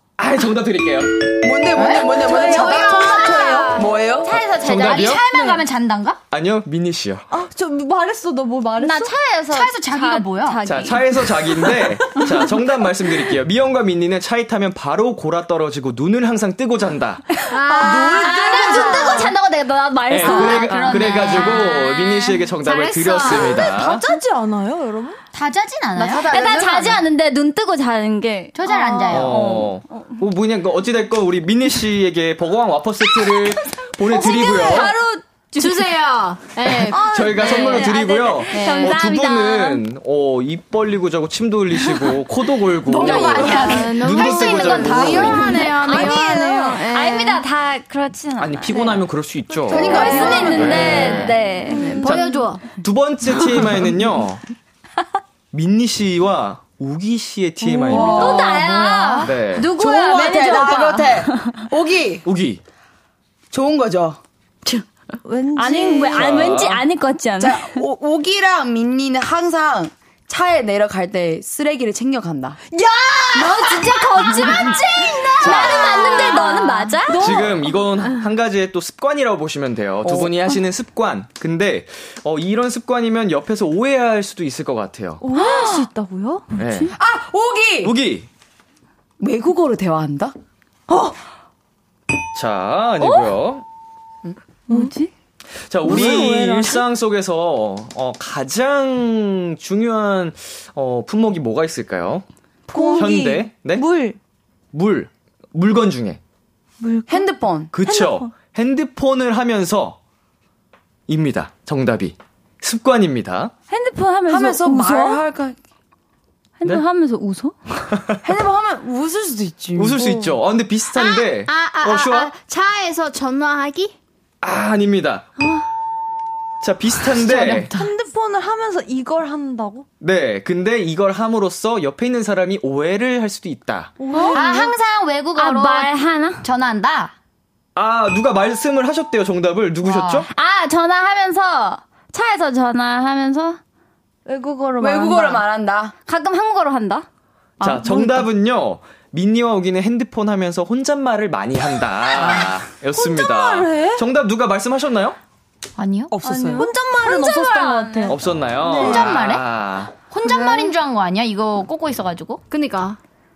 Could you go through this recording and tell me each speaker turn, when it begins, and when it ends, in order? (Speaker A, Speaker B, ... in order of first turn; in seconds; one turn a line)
Speaker A: 0.2-1.4
Speaker B: 1.4-4.3
Speaker C: 1.7-3.8
Speaker D: 2.2-3.8
Speaker E: 2.9-3.9
Speaker C: 4.3-6.2
Speaker F: 4.3-5.1
Speaker A: 4.3-5.2
Speaker D: 5.3-5.6
Speaker A: 6.3-7.3
Speaker D: 7.3-9.2
Speaker C: 8.8-10.6
Speaker F: 8.9-11.3
Speaker A: 10.7-17.3
Speaker E: 17.5-18.4
Speaker D: 17.7-19.3
Speaker B: 17.8-19.3
Speaker F: 18.0-21.9
Speaker C: 18.3-19.4
Speaker A: 20.1-24.0
Speaker C: 20.2-21.7
Speaker E: 22.6-23.6
Speaker D: 23.6-25.2
Speaker C: 25.3-26.3
Speaker B: 25.9-27.0
Speaker F: 26.3-30.2
Speaker C: 28.6-29.5
Speaker A: 29.1-35.0
Speaker D: 34.1-35.9
Speaker F: 34.1-35.0
Speaker E: 35.6-37.0
Speaker D: 36.9-38.1
Speaker A: 36.9-45.5
Speaker F: 37.2-39.9
Speaker C: 42.9-46.0
Speaker E: 43.0-47.4
Speaker F: 44.9-49.0
Speaker D: 45.8-46.9
Speaker A: 48.4-51.4
Speaker F: 49.7-52.1
Speaker E: 49.8-50.6
Speaker C: 49.8-51.1
Speaker B: 49.8-50.7
Speaker D: 49.9-52.0
Speaker E: 51.8-52.6
Speaker A: 52.0-54.4
Speaker A: 55.5-58.6
Speaker D: 57.6-59.0
Speaker B: 57.8-62.3
Speaker F: 57.9-61.3
Speaker A: 59.2-59.7
Speaker A: 62.2-62.6
Speaker B: 63.5-64.2
Speaker D: 64.7-66.4
Speaker F: 65.6-67.8
Speaker A: 66.2-66.9
Speaker B: 67.4-72.6
Speaker F: 73.2-77.3
Speaker D: 73.3-74.8
Speaker E: 73.3-76.5
Speaker B: 73.7-74.7
Speaker B: 75.4-76.5
Speaker D: 75.7-78.2
Speaker A: 77.1-85.2
Speaker D: 85.2-86.9
Speaker B: 85.3-85.9
Speaker A: 86.5-87.0
Speaker B: 87.0-88.0
Speaker A: 87.8-88.3
Speaker B: 89.2-90.3
Speaker D: 90.9-91.2
Speaker A: 92.3-93.7
Speaker D: 94.7-95.1
Speaker F: 94.7-95.0
Speaker A: 95.7-102.3
Speaker D: 95.8-96.8
Speaker D: 102.7-104.2
Speaker A: 103.0-103.9
Speaker A: 104.7-106.2
Speaker D: 106.8-108.3
Speaker B: 107.1-107.7
Speaker A: 107.7-110.0
Speaker A: 111.1-113.5
Speaker D: 113.7-115.2
Speaker B: 114.3-115.5
Speaker F: 116.6-117.5
Speaker B: 118.2-120.0
Speaker A: 119.8-122.3
Speaker D: 120.0-120.3
Speaker E: 121.0-124.0
Speaker A: 124.4-125.3
Speaker A: 126.6-127.9
Speaker C: 127.2-127.6
Speaker D: 127.7-129.9
Speaker A: 130.0-134.0
Speaker D: 134.0-134.7
Speaker F: 134.1-134.7
Speaker C: 134.3-137.1
Speaker F: 135.4-136.4
Speaker A: 137.8-140.3
Speaker C: 139.8-140.3
Speaker F: 140.3-143.6
Speaker D: 144.3-145.4
Speaker B: 144.8-145.9
Speaker F: 146.1-147.1
Speaker A: 147.6-155.2
Speaker D: 147.6-148.2
Speaker D: 152.9-154.0
Speaker C: 155.8-156.2
Speaker B: 156.1-156.7
Speaker D: 156.2-159.1
Speaker F: 157.0-158.2
Speaker A: 158.1-159.9
Speaker C: 158.8-159.5
Speaker C: 160.0-162.4
Speaker E: 162.5-163.0